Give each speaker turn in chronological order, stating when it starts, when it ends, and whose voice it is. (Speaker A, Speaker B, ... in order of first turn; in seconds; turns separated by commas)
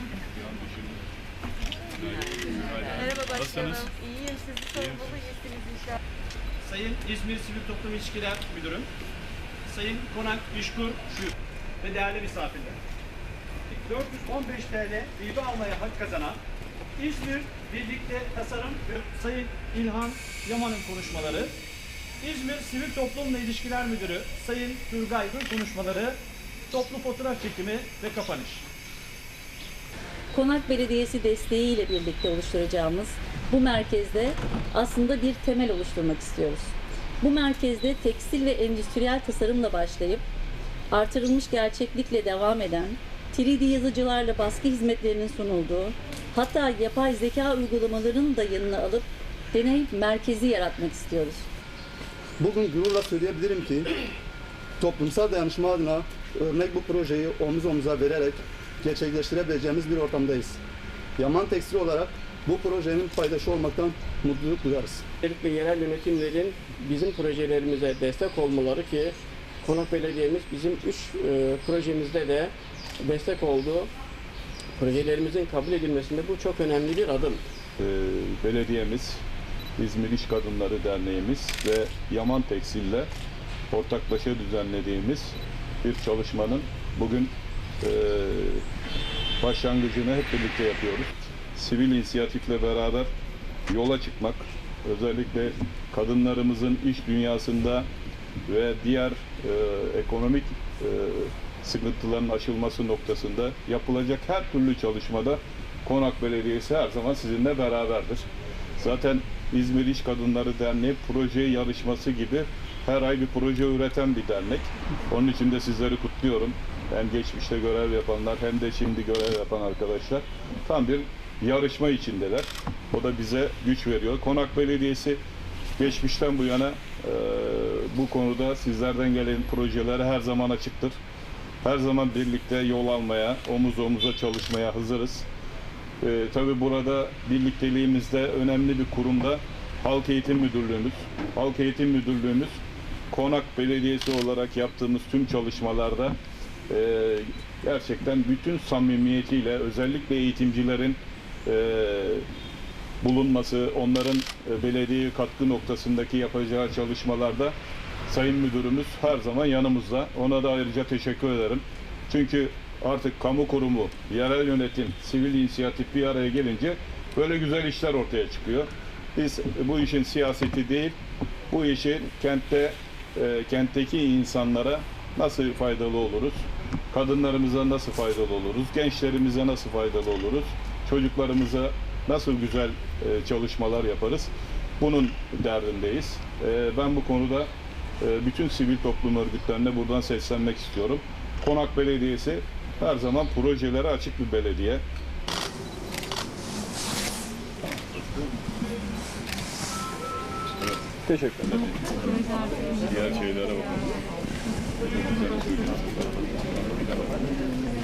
Speaker A: 0.4-0.8, Speaker A: 2.7-3.6, Speaker B: 2.9-6.0, Speaker C: 6.6-8.8, Speaker B: 6.9-8.8, Speaker C: 9.7-11.3, Speaker C: 11.8-12.7, Speaker B: 12.1-12.7, Speaker C: 13.8-16.3, Speaker B: 14.1-16.3, Speaker C: 17.0-21.5, Speaker B: 17.0-20.4, Speaker B: 20.9-21.4, Speaker C: 22.2-26.1, Speaker B: 22.3-23.5, Speaker C: 26.7-28.6, Speaker D: 30.3-40.2, Speaker D: 40.9-51.4, Speaker E: 52.4-53.9, Speaker E: 54.8-60.6, Speaker E: 61.2-65.0, Speaker F: 65.2-73.9, Speaker F: 74.8-77.4, Speaker A: 77.8-79.2, Speaker A: 79.8-83.1, Speaker A: 83.7-88.6, Speaker A: 89.4-93.1, Speaker A: 93.7-97.9, Speaker A: 98.5-108.3, Speaker A: 108.8-125.2, Speaker A: 125.8-131.0, Speaker A: 131.6-135.3, Speaker A: 136.0-142.6, Speaker A: 143.1-146.2, Speaker A: 146.7-152.2, Speaker A: 153.0-157.5, Speaker A: 158.1-170.9, Speaker A: 171.5-187.5, Speaker A: 188.0-194.8, Speaker A: 200.9-201.7, Speaker A: 202.8-203.8